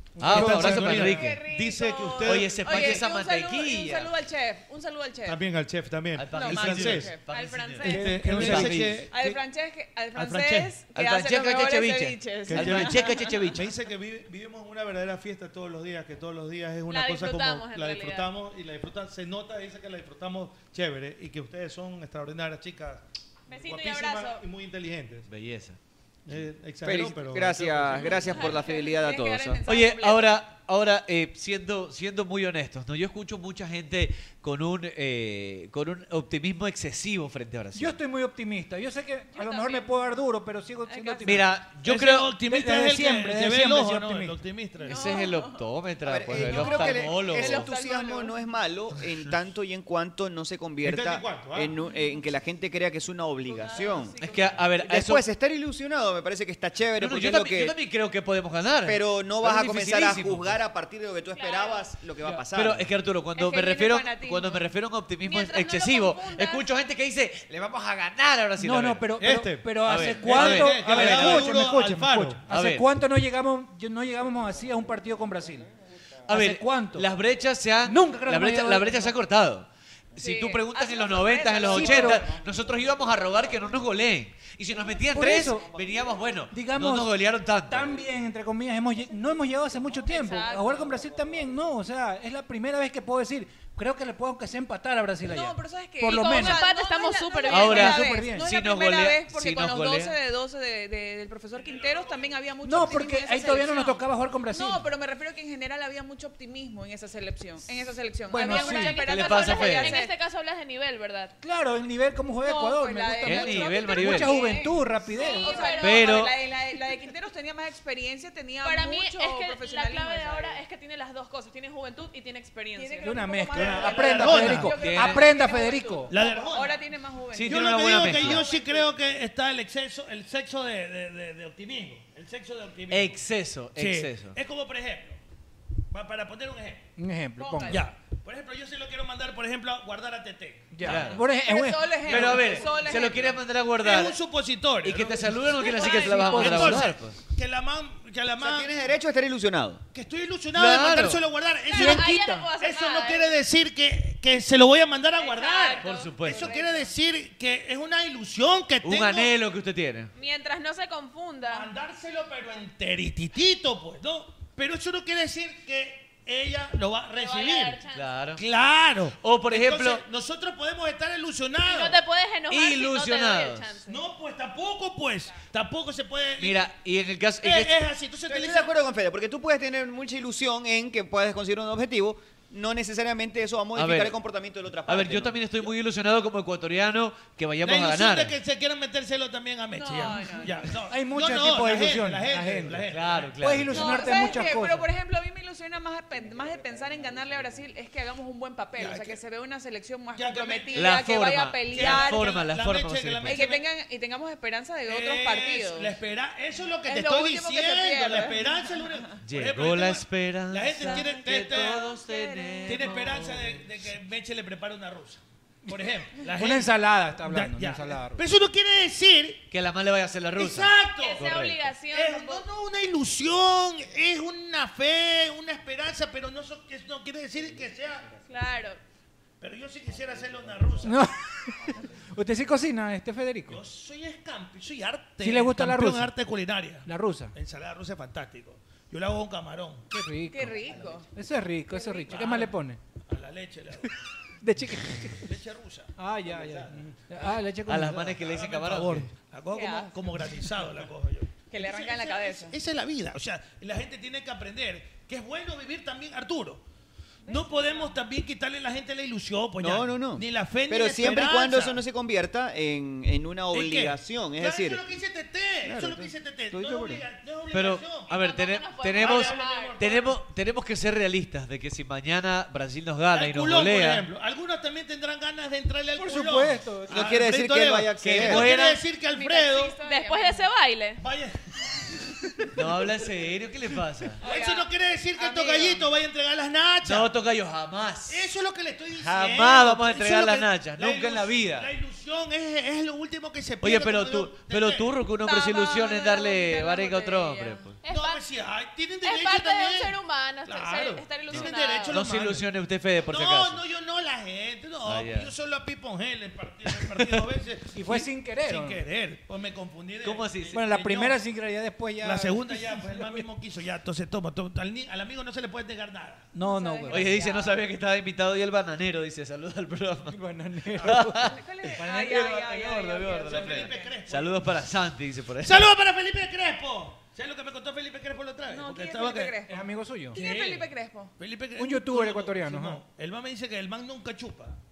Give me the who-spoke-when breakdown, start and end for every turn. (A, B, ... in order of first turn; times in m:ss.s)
0:00.2-0:01.2 A
0:00.2-0:01.4 B
0:00.2-0:03.0 C
0:01.1-0:05.4 D
0:01.3-0:02.4 E
0:02.2-0:04.1 B
0:05.2-0:07.1 C
0:06.2-0:09.1 B
0:06.3-0:07.3 D
0:07.3-0:08.2 E
0:07.8-0:08.9 A
0:07.8-0:09.4 C
0:09.1-0:13.4 D
0:10.2-0:10.7 C
0:10.9-0:13.7 B
0:12.5-0:25.3 C
0:16.9-0:18.3 E
0:23.5-0:24.4 E
0:25.3-0:25.8 B
0:26.3-0:28.3 C
0:26.8-0:29.6 F
0:28.2-0:30.4 D
0:28.3-0:29.0 E
0:29.7-0:38.0 B
0:37.8-0:41.5 A
0:39.4-0:39.9 E
0:40.9-0:41.2 D
0:41.2-0:42.3 B
0:41.8-0:45.0 C
0:42.5-0:44.4 A
0:44.8-0:47.7 B
0:44.9-0:45.6 E
0:46.0-0:54.2 F
0:46.3-0:48.2 E
0:46.5-0:48.3 D
0:50.8-0:51.7 C
0:53.6-0:54.5 D
0:53.6-0:54.6 E
0:54.2-0:55.2 B
0:54.8-0:57.8 F
0:57.0-1:00.6 B
0:58.8-1:02.9 F
1:01.3-1:01.9 E
1:02.5-1:09.1 B
1:03.4-1:04.6 D
1:05.2-1:06.7 E
1:08.6-1:15.7 A
1:09.2-1:12.4 C
1:09.8-1:11.6 B
1:12.5-1:12.9 B
1:16.3-1:17.1 A
1:16.3-1:28.0 B
1:17.8-1:19.0 A
1:20.2-1:22.3 D
1:21.7-1:22.3 A
1:25.1-1:25.7 A
1:26.5-1:36.6 A
1:30.1-1:31.0 D
1:35.2-1:50.2 D
1:36.1-1:38.1 E
1:37.5-1:40.2 B
1:37.6-1:38.5 A
1:41.6-1:42.9 C
1:42.6-1:44.9 A
1:48.3-1:49.0 A
1:48.4-1:51.3 E
1:49.0-1:50.0 B
1:51.4-1:55.8 A
1:52.4-2:00.6 D
1:53.2-1:54.4 B
1:54.0-1:56.3 E
1:55.8-1:56.3 B
1:58.6-2:04.7 E
2:02.8-2:08.9 D
2:03.0-2:06.1 A
2:03.6-2:04.8 C
2:04.7-2:05.2 B
2:05.2-2:06.5 E
2:06.1-2:06.8 C
2:07.3-2:08.5 B
2:07.4-2:13.2 C
2:08.0-2:08.8 E
2:12.9-2:14.4 B
2:13.8-2:15.2 C
2:15.9-2:16.8 C
2:17.0-2:17.8 A
2:17.4-2:17.8 D
2:17.7-2:21.2 C
2:20.7-2:22.4 A
2:20.8-2:21.2 B
2:21.2-2:23.4 D
2:22.0-2:24.2 B
2:22.1-2:28.8 C
2:24.8-2:27.2 B
2:25.6-2:26.5 E
2:25.9-2:26.9 A
2:28.4-2:29.8 F
2:29.9-2:39.3 C
2:30.5-2:31.2 B
2:31.7-2:33.4 E
2:31.8-2:32.2 A
2:35.2-2:36.9 E
2:35.8-2:36.5 B
2:38.8-2:40.1 B
2:40.1-2:41.7 E
2:41.5-2:47.8 C
2:47.1-2:48.2 E
2:47.9-2:48.4 B
2:48.4-2:52.0 C
2:49.2-2:50.0 B
2:51.6-2:54.0 E
2:52.5-2:53.8 B
2:53.9-2:56.7 C
2:56.4-2:57.8 B
2:57.4-2:58.7 C
2:58.3-3:05.6 F
3:03.8-3:04.2 B
3:04.9-3:08.4 B
3:07.6-3:14.0 C
3:09.8-3:10.7 D
3:10.9-3:14.9 A
3:12.9-3:14.2 B
3:13.7-3:22.4 D
3:18.8-3:19.2 C
3:20.2-3:21.0 C
3:20.7-3:23.4 B
3:21.7-3:23.6 C
3:23.2-3:26.0 D
3:24.9-3:31.9 C
3:26.9-3:28.6 D
3:29.2-3:33.4 B
3:30.8-3:33.4 D
3:32.6-3:39.4 C
3:36.2-3:38.2 A
3:39.5-3:41.7 B
3:40.4-3:41.3 C
3:40.9-3:42.5 E
3:41.9-3:48.2 C
3:48.3-3:48.8 E
3:49.4-3:51.0 C
3:50.8-3:53.6 A
3:53.5-3:59.8 C
3:55.2-3:56.1 A
3:56.8-3:57.3 A
3:59.9-4:02.8 A
4:00.3-4:01.1 D
4:01.7-4:02.1 D
4:02.1-4:02.5 C
4:03.1-4:03.9 C
4:04.4-4:05.3 A
4:05.2-4:07.4 C
4:06.0-4:08.2 A
4:07.7-4:09.1 B
4:08.2-4:16.6 C
4:09.5-4:10.0 D
4:11.5-4:12.6 D
4:17.3-4:17.9 D
4:17.3-4:21.8 C
4:19.6-4:24.8 F
4:23.5-4:28.1 C
4:25.6-4:27.0 F
4:27.5-4:34.1 B
4:28.1-4:30.0 E
4:29.0-4:30.2 C
4:33.1-4:39.8 C
4:36.0-4:37.1 A
4:36.9-4:38.5 F
4:38.0-4:38.8 B
4:39.1-4:40.5 D
4:39.3-4:41.0 E
4:41.0-4:42.7 C
4:42.5-4:44.2 B
4:44.2-4:47.1 C
4:44.2-4:44.6 D
4:45.2-4:45.9 D
4:46.8-4:48.2 B
4:48.1-4:54.9 C
4:49.0-4:51.7 B
4:53.6-4:57.8 B
4:55.2-4:58.3 E
4:56.9-4:57.2 D
4:57.9-5:02.5 C
4:59.0-5:02.0 E
5:01.3-5:03.6 B
5:03.1-5:11.2 C
5:04.8-5:05.3 B
5:06.7-5:07.3 B
5:07.7-5:08.8 A
5:10.0-5:10.6 B
5:10.5-5:13.3 A
5:12.0-5:16.3 C
5:16.3-5:17.2 A
5:16.4-5:17.6 D
5:16.9-5:20.2 B
5:20.1-5:22.4 A
5:20.8-5:25.7 B
5:21.2-5:23.9 D
5:23.2-5:24.6 C
5:25.4-5:29.4 C
5:28.5-5:29.6 D
5:29.5-5:30.2 A
5:30.1-5:31.1 D
5:30.1-5:34.6 C
5:31.6-5:32.8 A